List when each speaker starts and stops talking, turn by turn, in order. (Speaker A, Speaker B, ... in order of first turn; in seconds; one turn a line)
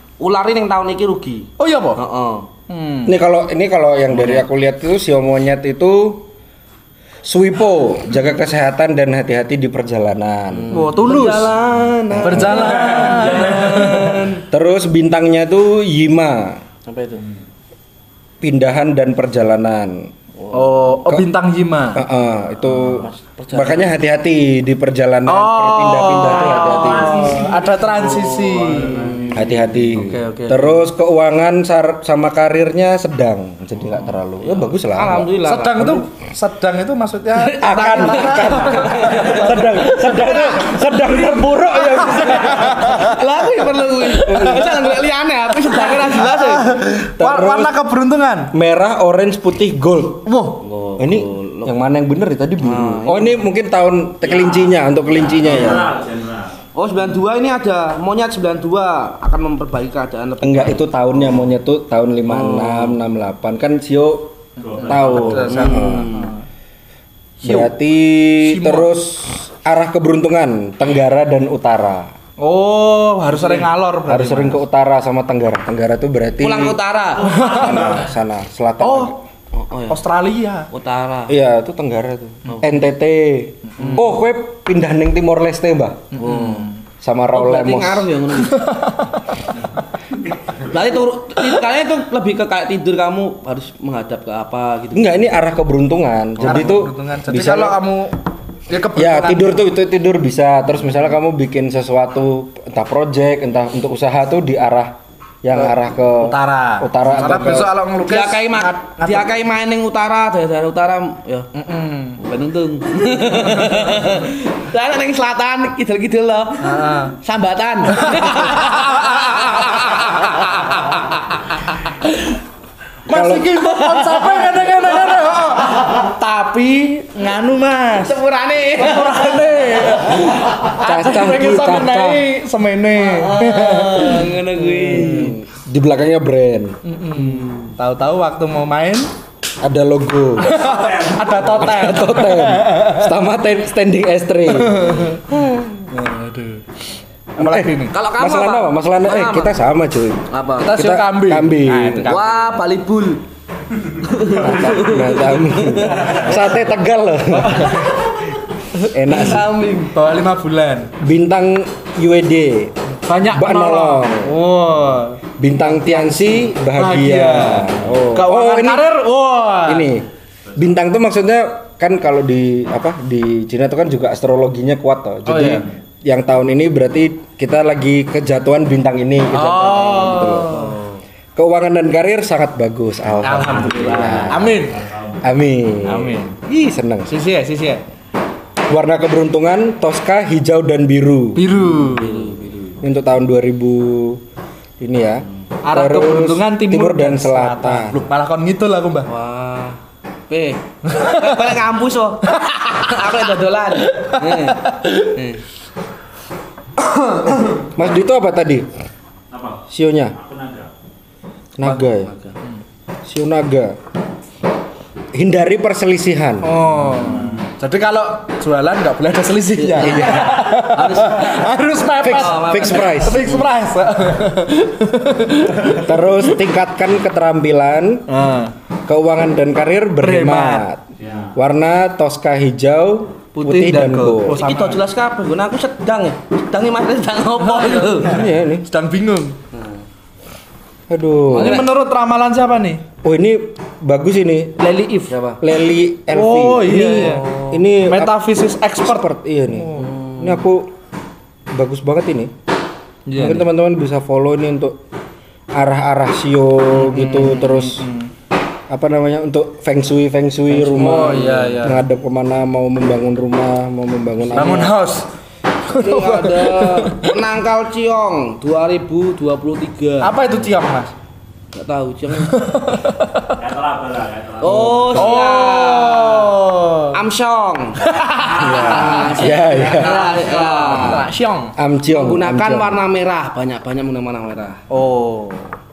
Speaker A: 0.2-2.5
Speaker B: 1.6-2.0
Speaker B: 2.7-3.1
Speaker C: 3.0-6.3
Speaker C: 7.2-10.9
Speaker A: 10.5-14.4
Speaker B: 10.7-11.5
Speaker C: 12.1-12.8
Speaker B: 12.2-14.2
Speaker C: 14.5-16.6
Speaker A: 16.9-17.3
Speaker C: 18.4-20.1
Speaker A: 20.4-20.9
Speaker B: 20.5-22.0
Speaker C: 21.9-27.4
Speaker A: 23.0-23.9
Speaker B: 25.3-29.3
Speaker D: 26.5-28.9
Speaker A: 28.6-30.8
Speaker C: 29.3-35.4
Speaker A: 34.4-36.0
Speaker B: 35.4-40.8
Speaker A: 37.4-46.7
Speaker C: 37.6-43.0
Speaker B: 42.2-43.1
Speaker C: 44.2-44.8
Speaker B: 45.7-48.5
Speaker C: 47.0-47.8
Speaker C: 48.5-50.3
Speaker B: 50.2-50.6
Speaker A: 50.6-51.7
Speaker C: 51.0-55.9
Speaker A: 52.6-53.4
Speaker D: 54.3-54.7
Speaker A: 55.2-55.7
Speaker D: 55.4-56.5
Speaker A: 56.7-61.3
Speaker C: 60.4-66.2
Speaker A: 62.3-63.0
Speaker D: 64.6-65.3
Speaker B: 65.0-66.4
Speaker A: 65.1-66.3
Speaker B: 67.4-67.7
Speaker C: 67.4-72.1
Speaker B: 68.4-68.9
Speaker B: 72.4-74.6
Speaker A: 73.3-73.6
Speaker C: 74.1-76.8
Speaker A: 76.4-78.0
Speaker B: 77.2-78.0
Speaker D: 77.3-77.7
Speaker C: 77.5-79.2
Speaker B: 78.8-79.2
Speaker A: 79.5-80.0
Speaker B: 79.9-80.7
Speaker A: 80.7-81.3
Speaker C: 81.3-86.0
Speaker B: 83.8-84.1
Speaker B: 86.1-86.8
Speaker A: 86.2-86.7
Speaker C: 87.0-88.1
Speaker A: 87.3-88.8
Speaker B: 88.5-89.2
Speaker A: 90.6-95.2
Speaker C: 94.9-97.8
Speaker A: 96.4-96.8
Speaker B: 96.4-99.6
Speaker C: 98.9-107.7
Speaker B: 105.5-109.4
Speaker A: 107.1-111.5
Speaker B: 111.5-112.2
Speaker A: 112.2-122.1
Speaker B: 113.0-114.1
Speaker B: 116.6-117.1
Speaker B: 117.9-121.1
Speaker C: 123.1-123.5
Speaker B: 123.1-128.2
Speaker A: 123.6-125.8
Speaker A: 128.0-130.2
Speaker B: 128.8-135.3
Speaker C: 130.8-132.2
Speaker A: 133.0-135.3
Speaker C: 134.9-136.8
Speaker B: 136.8-139.1
Speaker A: 137.2-137.8
Speaker C: 139.6-145.4
Speaker B: 140.4-143.1
Speaker D: 140.7-141.3
Speaker B: 144.5-146.8
Speaker B: 147.4-147.9
Speaker C: 147.4-152.1
Speaker A: 147.9-149.6
Speaker A: 150.3-150.7
Speaker B: 150.6-152.6
Speaker A: 152.1-153.2
Speaker A: 154.0-156.3
Speaker C: 154.3-158.1
Speaker B: 154.7-155.0
Speaker B: 156.0-156.4
Speaker B: 157.3-158.0
Speaker C: 158.9-159.5
Speaker A: 159.1-159.9
Speaker B: 159.9-160.9
Speaker C: 161.0-164.4
Speaker B: 163.1-165.2
Speaker C: 165.4-168.9
Speaker B: 165.8-169.9
Speaker C: 169.6-180.7
Speaker B: 175.2-175.7
Speaker B: 179.3-181.0
Speaker C: 181.3-187.1
Speaker B: 183.2-184.8
Speaker D: 183.4-185.2
Speaker B: 185.8-186.4
Speaker B: 187.1-187.8
Speaker C: 188.7-191.5
Speaker B: 191.3-192.3
Speaker A: 191.6-192.8
Speaker C: 192.8-194.2
Speaker C: 194.8-198.0
Speaker B: 195.6-199.1
Speaker A: 199.1-205.4
Speaker B: 200.9-201.5
Speaker B: 202.4-202.9
Speaker B: 203.8-205.1
Speaker B: 206.8-207.7
Speaker C: 207.7-208.7
Speaker D: 209.3-209.6
Speaker C: 209.7-210.2
Speaker D: 210.2-210.7
Speaker C: 211.6-212.1
Speaker A: 211.6-212.3
Speaker C: 213.0-213.8
Speaker C: 215.1-216.6
Speaker B: 216.4-226.3
Speaker A: 217.0-217.3
Speaker A: 219.5-223.5
Speaker C: 219.8-220.4
Speaker C: 222.0-223.3
Speaker C: 225.5-228.1
Speaker B: 228.1-228.5
Speaker C: 228.9-230.8
Speaker B: 230.0-230.7
Speaker D: 231.0-231.3
Speaker C: 231.3-234.4
Speaker B: 233.3-234.8
Speaker A: 234.3-238.2
Speaker B: 237.4-239.4
Speaker C: 238.0-238.7
Speaker C: 240.9-241.6
Speaker A: 241.3-241.7
Speaker B: 241.3-242.8
Speaker C: 243.0-244.6
Speaker B: 244.6-245.1
Speaker A: 245.1-245.4
Speaker C: 245.4-248.2
Speaker B: 246.1-249.9
Speaker A: 246.9-247.5
Speaker C: 248.8-250.7
Speaker A: 249.8-250.4
Speaker C: 251.5-252.3
Speaker B: 253.1-253.5
Speaker C: 253.2-254.8
Speaker C: 255.5-257.9
Speaker B: 256.8-258.1
Speaker C: 258.7-264.8
Speaker A: 260.6-261.6
Speaker B: 260.7-261.8
Speaker B: 264.3-265.1
Speaker A: 264.4-264.6
Speaker B: 265.7-267.1
Speaker A: 265.7-270.1
Speaker B: 270.0-270.9
Speaker A: 271.5-272.4
Speaker B: 272.2-273.3
Speaker D: 273.4-275.0
Speaker A: 274.4-276.4
Speaker B: 274.4-277.0
Speaker A: 276.9-277.8
Speaker B: 277.8-279.4
Speaker D: 278.2-278.7
Speaker A: 278.4-281.1
Speaker C: 279.0-280.0
Speaker D: 279.2-280.6
Speaker B: 279.9-281.5
Speaker C: 281.6-282.8
Speaker A: 281.9-284.6
Speaker B: 284.7-285.5